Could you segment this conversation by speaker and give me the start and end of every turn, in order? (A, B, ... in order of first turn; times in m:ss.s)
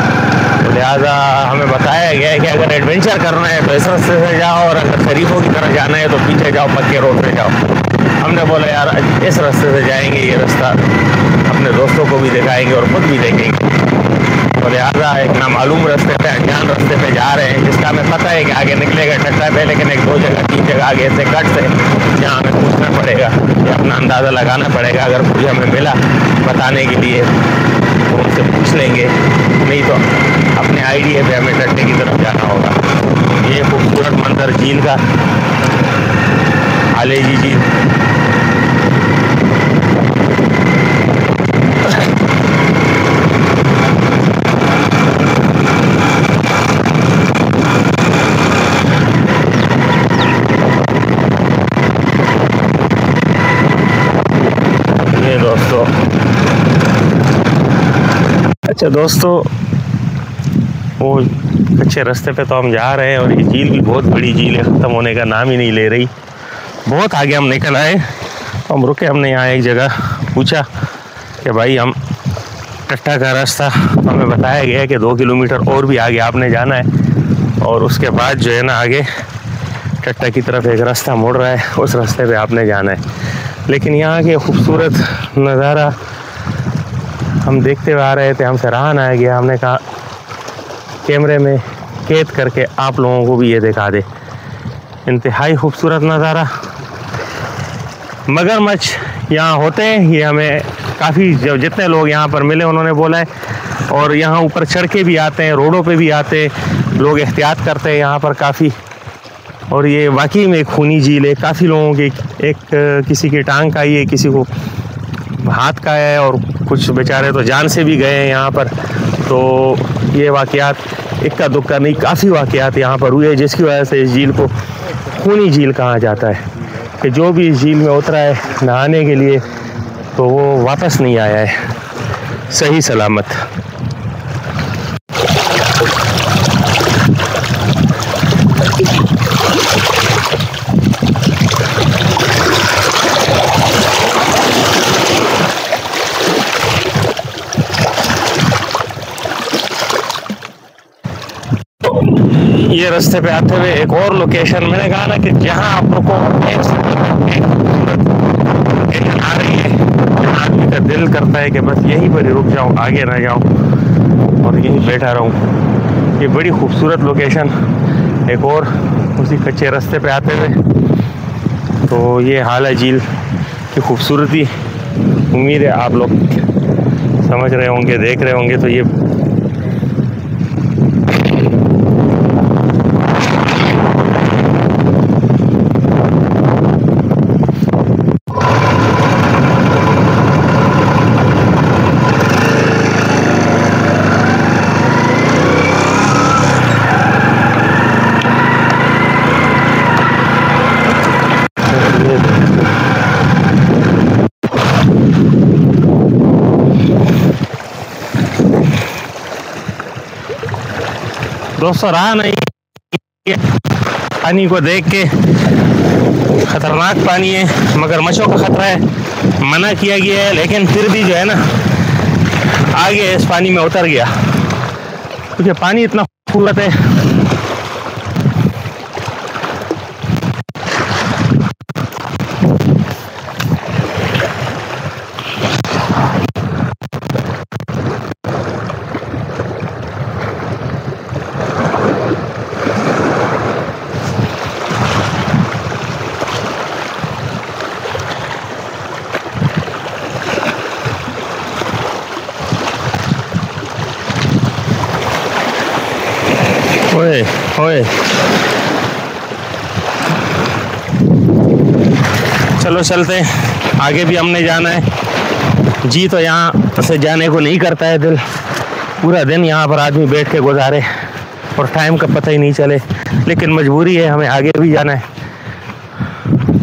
0:00.6-0:10.9 A
0:11.4-0:13.8 A
0:14.5-0:27.4 A
0:28.1-0:35.1 A
0:36.9-0:37.7 A
0:55.0-0:56.0 A
0:58.6-0:59.6 A
1:01.0-1:06.1 A
1:06.8-1:08.1 A
1:08.6-1:10.7 A
1:11.4-1:12.0 A
1:12.9-1:16.9 A
1:17.6-1:19.1 A
1:20.0-1:23.0 A
1:23.7-1:26.0 A
1:27.4-1:29.8 A
1:31.0-1:34.1 A
1:35.1-1:36.5 A
1:38.3-1:48.8 A
1:49.7-1:54.5 A
1:55.4-2:13.5 A
2:31.8-2:43.6 A
2:44.4-2:45.4 A
2:46.2-2:47.6 A
2:48.2-2:50.7 A
2:51.8-2:56.4 A
2:57.2-2:58.9 A
3:21.6-3:22.5 A
3:31.6-3:33.6 A
3:34.2-3:35.4 A
3:36.4-3:41.6 A
3:42.3-3:44.2 A
3:45.3-3:47.0 A
4:16.9-4:18.0 A
4:22.4-4:24.9 A
4:25.8-4:28.3 A
4:29.0-4:35.1 A